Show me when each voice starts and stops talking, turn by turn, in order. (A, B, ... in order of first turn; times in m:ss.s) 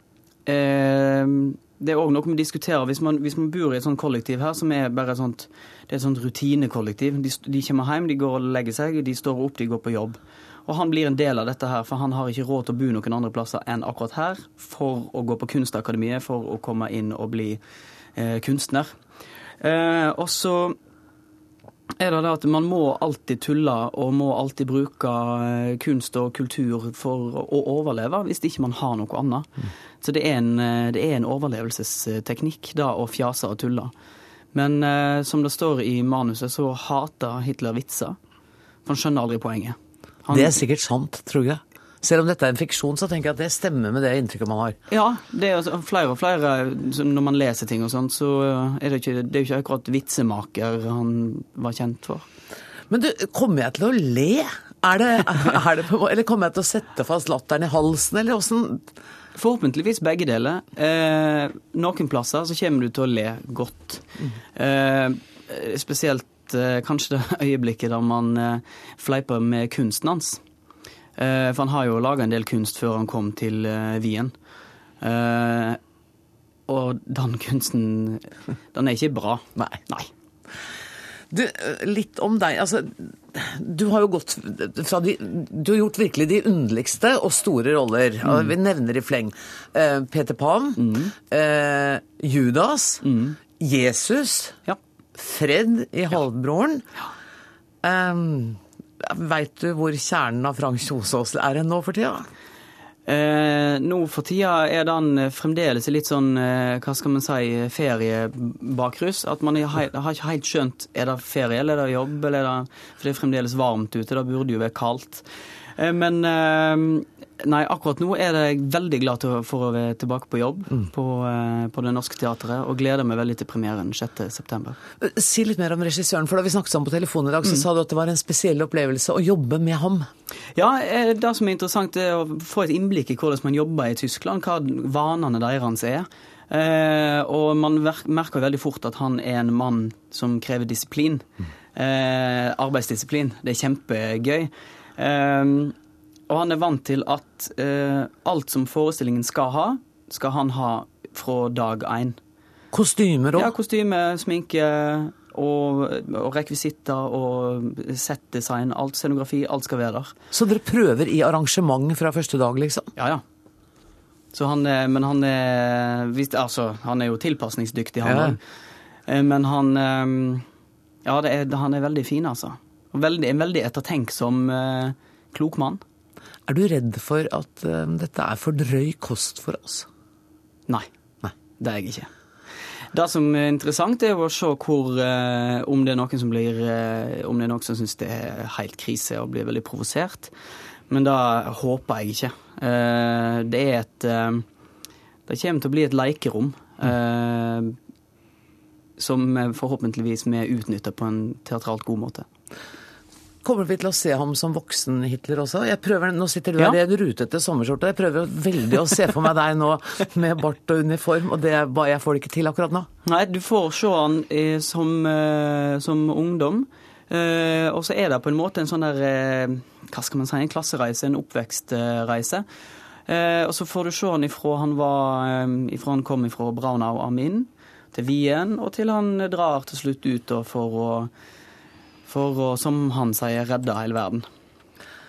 0:00.4-0:17.6 A
0:18.2-0:18.9 A
0:19.6-0:20.8 A
0:22.0-0:33.9 A
0:34.5-0:38.2 A
0:38.8-0:40.6 A
0:40.3-0:44.8 B
0:44.9-0:52.2 A
0:52.9-0:58.9 B
0:59.4-1:10.4 A
1:11.2-1:14.3 A
1:15.0-1:15.8 A
1:16.7-1:20.1 A
1:21.3-1:33.0 B
1:30.8-1:31.1 A
1:33.0-1:33.4 A
1:33.6-1:34.6 B
1:35.2-1:36.8 B
1:37.8-1:42.3 B
1:43.1-1:55.2 A
1:55.8-2:04.8 A
2:05.0-2:10.1 B
2:10.6-2:25.7 A
2:26.3-2:32.2 A
2:32.7-2:33.5 B
2:33.4-2:40.1 A
2:40.3-2:42.9 B
2:43.0-2:43.2 A
2:44.3-2:48.4 A
2:48.0-2:48.4 B
2:49.1-2:50.4 A
2:51.0-2:55.8 A
2:56.5-2:59.9 B
3:01.6-3:02.1 A
3:02.9-3:10.3 A
3:10.9-3:14.4 A
3:15.3-3:17.7 A
3:19.0-3:22.2 A
3:23.4-3:32.9 B
3:33.0-3:42.4 A
3:43.1-3:51.1 A
3:52.1-3:54.2 A